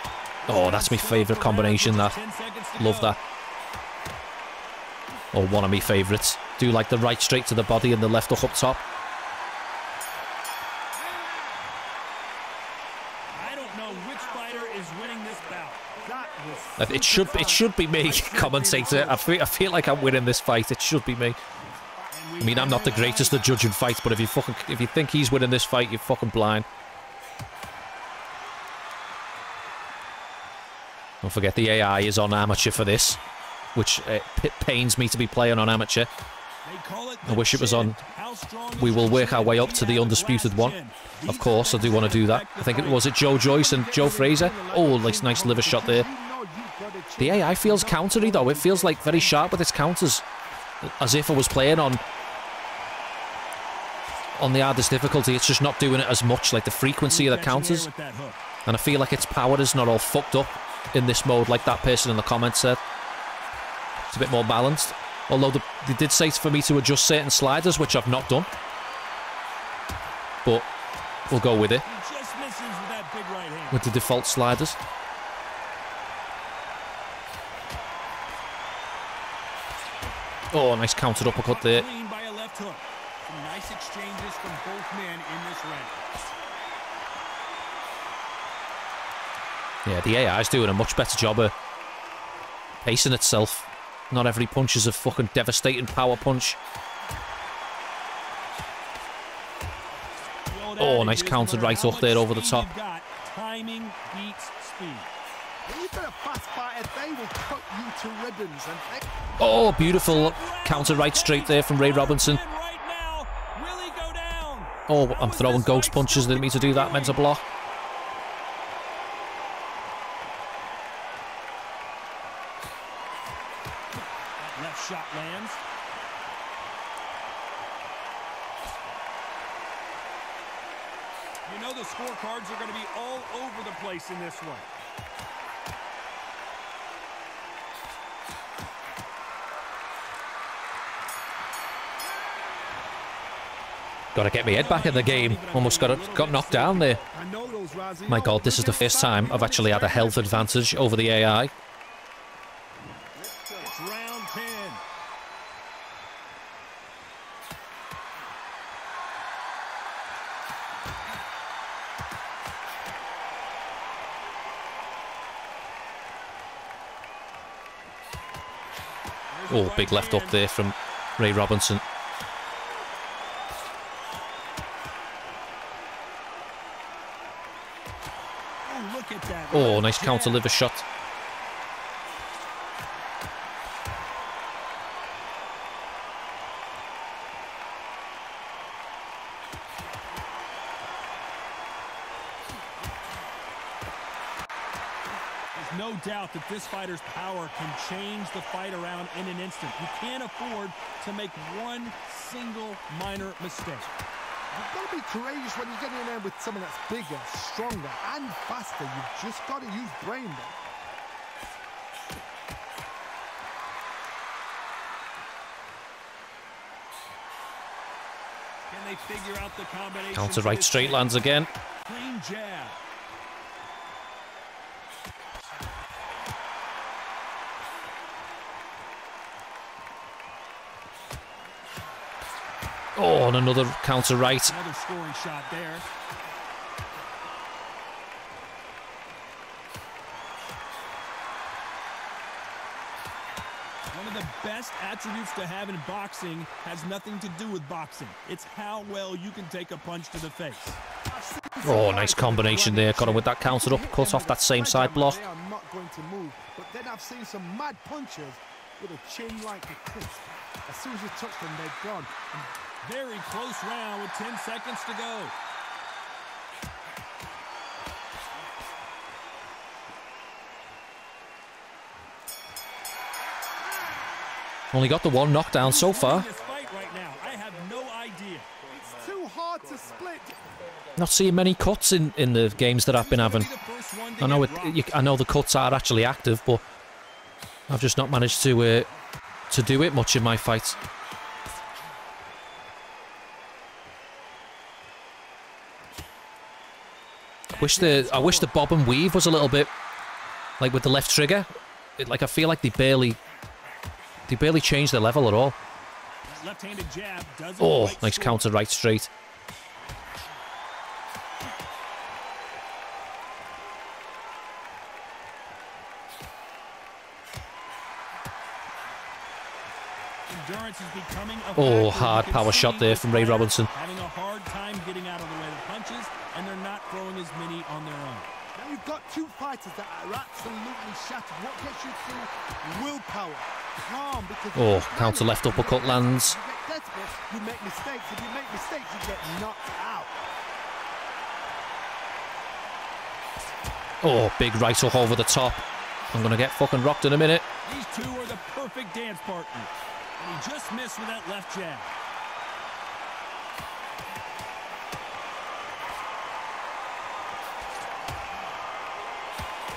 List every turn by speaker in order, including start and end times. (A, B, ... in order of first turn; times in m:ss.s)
0:00.4-0:03.2 A
0:00.5-0:02.2 B
0:02.8-0:03.2 B
0:05.3-0:08.8 B
0:13.3-0:16.0 A
0:13.8-0:15.3 C
0:15.9-0:17.7 C
0:16.8-0:21.4 B
0:17.9-0:19.3 A
0:22.1-0:23.5 A
0:22.4-0:26.7 B
0:31.2-0:33.2 B
0:33.8-0:36.1 B
0:36.6-0:43.2 A
0:37.3-0:38.0 B
0:38.8-0:46.1 B
0:43.4-0:49.5 C
0:47.2-0:50.2 B
0:50.8-0:52.0 B
0:54.4-0:57.9 B
0:57.1-0:58.4 A
0:58.7-1:02.8 B
1:04.1-1:08.5 B
1:11.3-1:11.9 B
1:11.8-1:13.8 A
1:13.7-1:14.8 B
1:20.5-1:21.9 B
1:21.2-1:26.0 A
1:29.8-1:31.5 B
1:32.8-1:36.6 B
1:40.5-1:45.1 A
1:40.8-1:42.7 B
1:45.6-1:49.3 C
1:49.4-1:52.4 B
1:49.8-1:57.2 A
1:54.9-1:57.4 B
2:04.4-2:05.6 A
2:11.5-2:14.7 A
2:24.1-2:27.0 B
2:24.4-2:27.0 A
2:27.1-2:30.9 C
2:28.1-2:31.5 B
2:33.2-2:33.7 C
2:33.6-2:34.8 A
2:49.3-2:50.4 A
2:49.5-2:51.8 B
2:58.6-3:00.4 A
2:59.5-3:00.8 B
3:15.5-3:23.9 A
3:24.5-3:30.6 C
3:38.7-3:41.2 A
3:40.1-3:41.5 B
3:41.8-3:42.8 A
3:53.0-3:54.5 B
3:54.4-3:55.8 A
4:03.9-4:10.8 A
4:11.1-4:22.5 C
4:11.6-4:15.2 B
4:22.8-4:25.4 A
4:34.7-4:36.3 B
4:35.6-4:38.5 A
4:38.7-4:40.6 C
4:41.0-4:43.5 B
4:42.9-4:44.8 A
4:44.2-4:46.6 B
4:47.7-4:48.9 B
4:49.5-4:50.8 B
4:57.5-4:58.5 A
4:57.6-4:59.7 B
5:00.6-5:03.2 B
5:04.3-5:05.6 B
5:06.3-5:08.4 A
5:07.6-5:09.1 B
5:20.3-5:28.3 A
5:21.6-5:23.7 B
5:28.6-5:40.2 C
5:34.6-5:36.4 B
5:44.0-5:47.5 B
5:47.6-5:51.9 A